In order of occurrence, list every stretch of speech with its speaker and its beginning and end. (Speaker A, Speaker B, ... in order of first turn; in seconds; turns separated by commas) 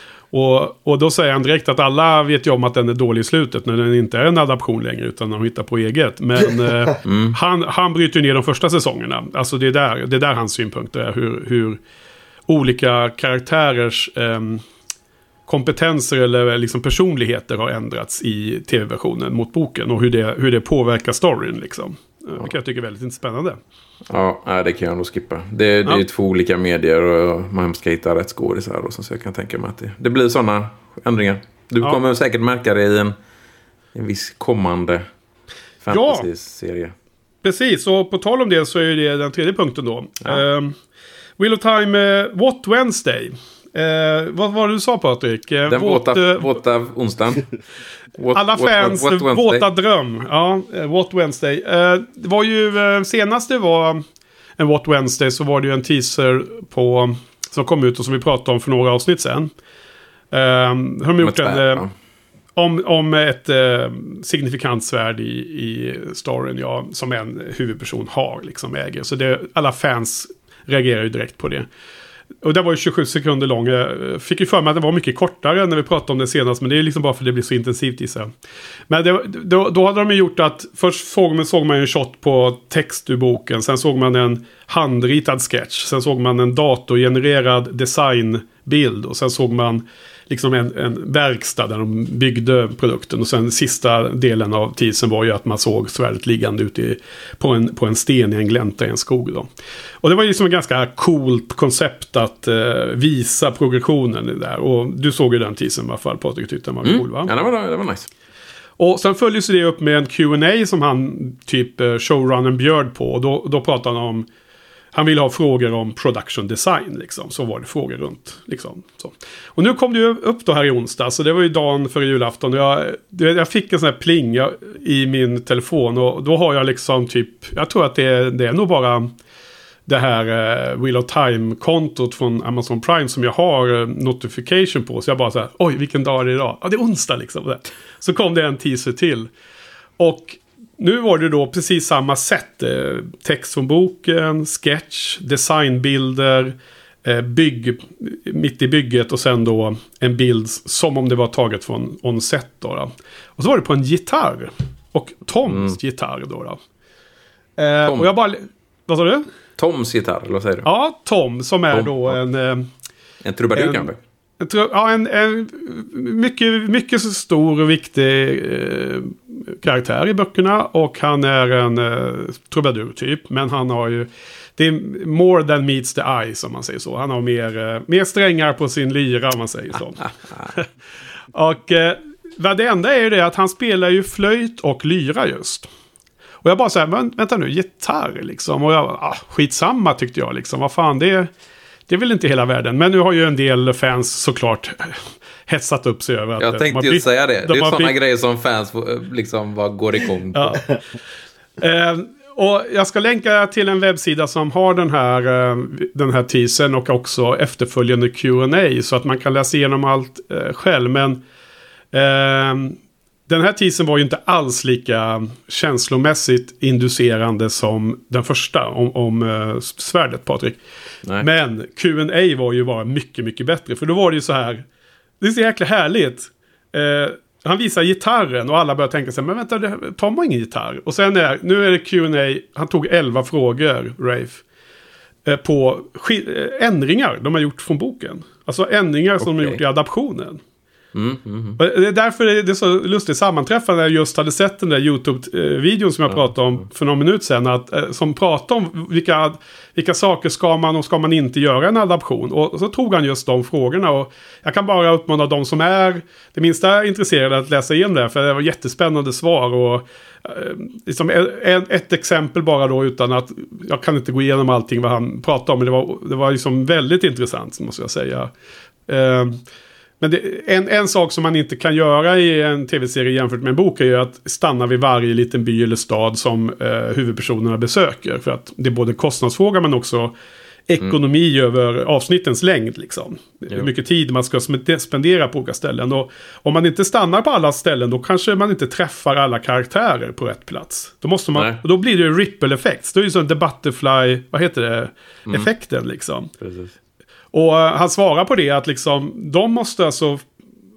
Speaker A: 0.3-11.8, Speaker B: 7.0-7.4, Speaker A: 12.5-14.6, Speaker A: 15.5-23.6, Speaker B: 24.1-33.1, Speaker B: 33.9-35.1, Speaker B: 35.8-36.9, Speaker A: 35.9-36.2, Speaker A: 37.4-40.8, Speaker A: 41.4-46.5, Speaker B: 45.7-47.5, Speaker B: 48.1-49.7, Speaker A: 48.3-54.0, Speaker A: 54.6-59.5, Speaker A: 60.3-61.8, Speaker B: 61.2-61.9, Speaker A: 62.5-71.7, Speaker A: 72.4-78.3, Speaker A: 78.9-99.5, Speaker A: 100.0-107.3, Speaker B: 106.8-108.1, Speaker A: 108.8-114.3, Speaker A: 114.9-129.1, Speaker A: 129.9-139.3, Speaker A: 140.0-156.6, Speaker B: 155.4-155.8, Speaker A: 157.6-159.3, Speaker B: 157.8-158.1, Speaker B: 159.6-160.7, Speaker A: 160.6-162.7, Speaker B: 161.7-162.2, Speaker B: 163.2-164.0, Speaker A: 163.6-180.7, Speaker A: 181.3-185.7, Speaker A: 186.4-191.3, Speaker A: 191.9-197.9, Speaker B: 196.4-200.7, Speaker A: 200.3-200.6, Speaker A: 201.6-211.2, Speaker A: 211.9-212.8, Speaker A: 213.3-220.6, Speaker A: 221.2-224.6, Speaker A: 225.2-234.4, Speaker A: 235.2-240.4, Speaker B: 239.2-239.6, Speaker B: 240.9-241.6, Speaker A: 241.6-268.3, Speaker A: 268.9-269.4, Speaker A: 270.0-280.1, Speaker A: 280.7-296.3, Speaker B: 291.4-291.6, Speaker B: 296.4-296.7, Speaker A: 297.3-300.2